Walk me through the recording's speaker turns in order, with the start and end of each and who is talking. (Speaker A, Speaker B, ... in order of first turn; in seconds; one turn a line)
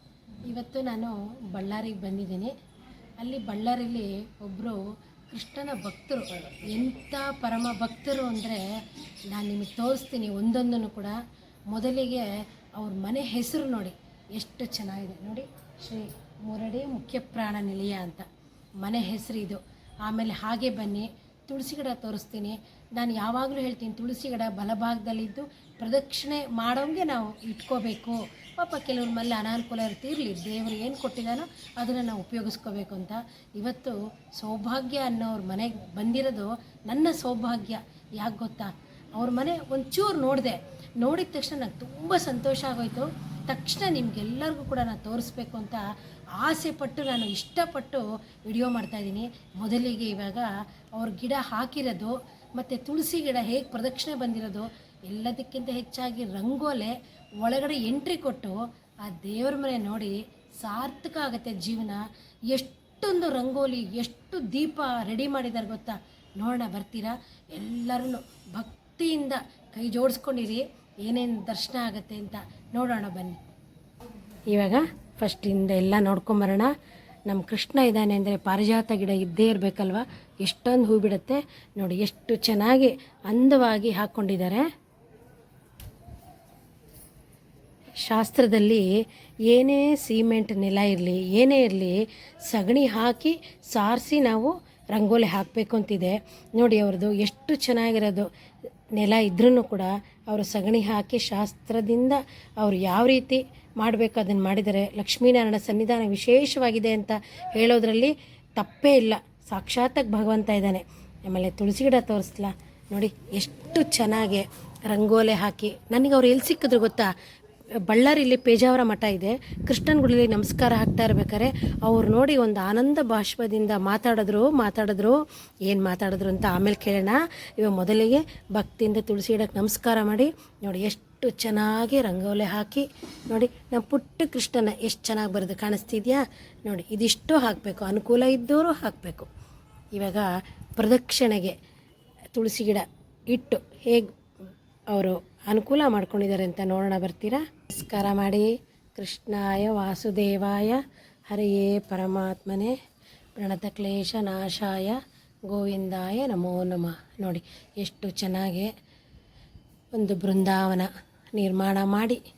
Speaker A: 0.5-2.5
Speaker A: 3.2-4.8
Speaker A: 5.3-8.6
Speaker A: 9.3-11.2
Speaker A: 11.7-18.3
Speaker A: 18.8-45.8
Speaker A: 46.4-73.4
Speaker A: 74.5-76.7
Speaker A: 77.3-84.7
Speaker A: 88.0-88.8
Speaker A: 89.5-98.3
Speaker A: 99.0-117.1
Speaker A: 117.9-139.3
Speaker A: 139.9-141.6
Speaker A: 142.3-144.1
Speaker A: 144.9-152.8
Speaker A: 153.4-158.7
Speaker A: 159.9-162.2